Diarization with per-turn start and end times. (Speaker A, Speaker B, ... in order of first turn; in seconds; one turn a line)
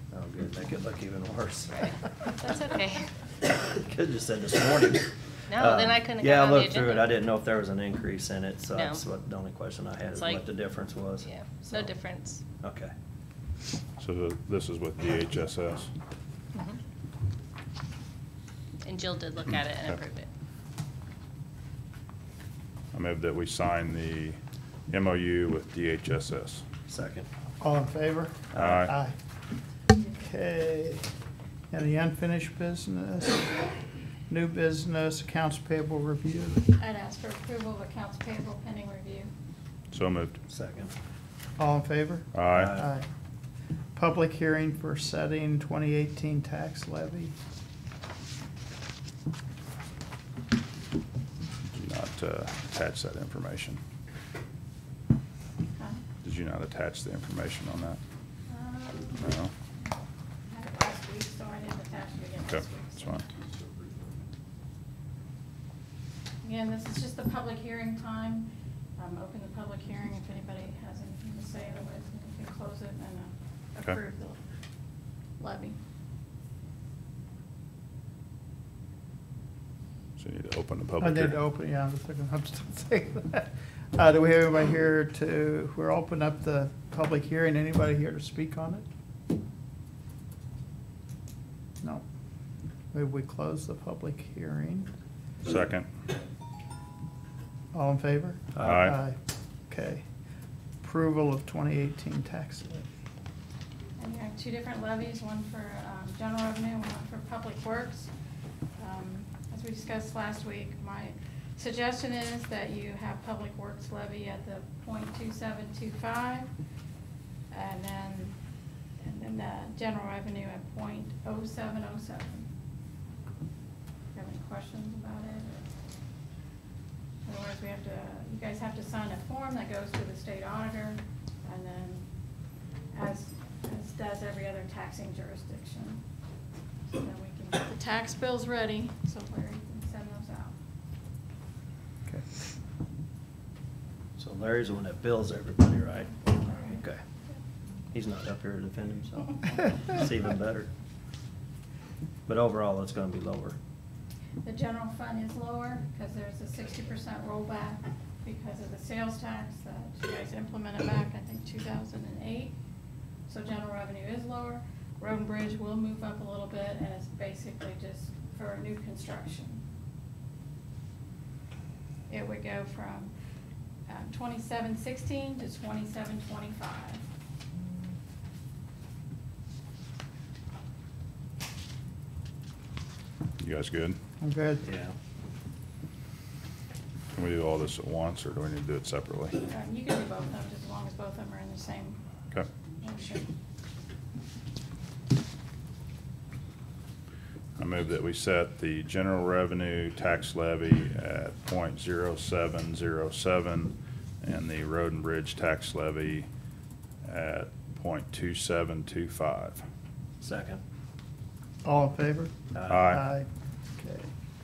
Speaker A: 0.1-1.8
Speaker B: 1.7-3.1
Speaker A: 3.7-11.9
Speaker B: 5.5-7.1
Speaker B: 8.8-9.0
Speaker B: 10.1-10.4
Speaker B: 11.2-12.4
Speaker A: 12.6-12.9
Speaker C: 14.0-15.9
Speaker B: 18.8-20.3
Speaker C: 22.9-24.4
Speaker C: 24.9-26.6
Speaker A: 26.9-27.3
Speaker D: 27.6-29.1
Speaker C: 28.5-28.9
Speaker D: 30.1-31.0
Speaker D: 31.7-33.7
Speaker D: 34.3-36.7
Speaker E: 36.8-39.3
Speaker C: 39.9-40.4
Speaker A: 40.5-40.9
Speaker D: 41.6-43.1
Speaker C: 42.3-42.7
Speaker A: 42.5-42.9
Speaker D: 44.0-47.3
Speaker C: 51.7-53.8
Speaker E: 55.8-56.0
Speaker C: 56.2-58.0
Speaker E: 58.5-59.2
Speaker C: 59.2-59.5
Speaker E: 60.5-63.3
Speaker C: 62.5-63.3
Speaker E: 66.4-74.4
Speaker E: 75.4-75.8
Speaker C: 80.2-81.4
Speaker D: 81.0-88.8
Speaker D: 92.9-94.9
Speaker C: 95.4-95.9
Speaker D: 97.7-99.2
Speaker C: 98.6-99.0
Speaker D: 99.7-100.0
Speaker D: 100.8-102.9
Speaker E: 104.0-108.1
Speaker E: 108.8-116.5
Speaker E: 117.5-118.4
Speaker E: 119.0-122.5
Speaker E: 124.1-125.7
Speaker E: 127.2-132.1
Speaker E: 132.9-136.0
Speaker E: 136.9-140.6
Speaker A: 144.2-147.0
Speaker E: 146.3-146.8
Speaker A: 147.9-150.7
Speaker A: 152.3-153.6
Speaker E: 154.4-162.6
Speaker E: 163.3-169.6
Speaker E: 172.1-173.1
Speaker E: 173.9-177.0
Speaker C: 183.4-184.0
Speaker D: 184.2-184.6
Speaker A: 184.6-184.9
Speaker C: 187.2-189.4
Speaker E: 189.4-192.0
Speaker E: 192.8-193.3
Speaker C: 197.6-206.3
Speaker C: 207.0-209.6
Speaker A: 210.2-210.6
Speaker D: 211.7-213.3
Speaker A: 212.5-212.8
Speaker C: 212.7-213.0
Speaker D: 213.8-214.1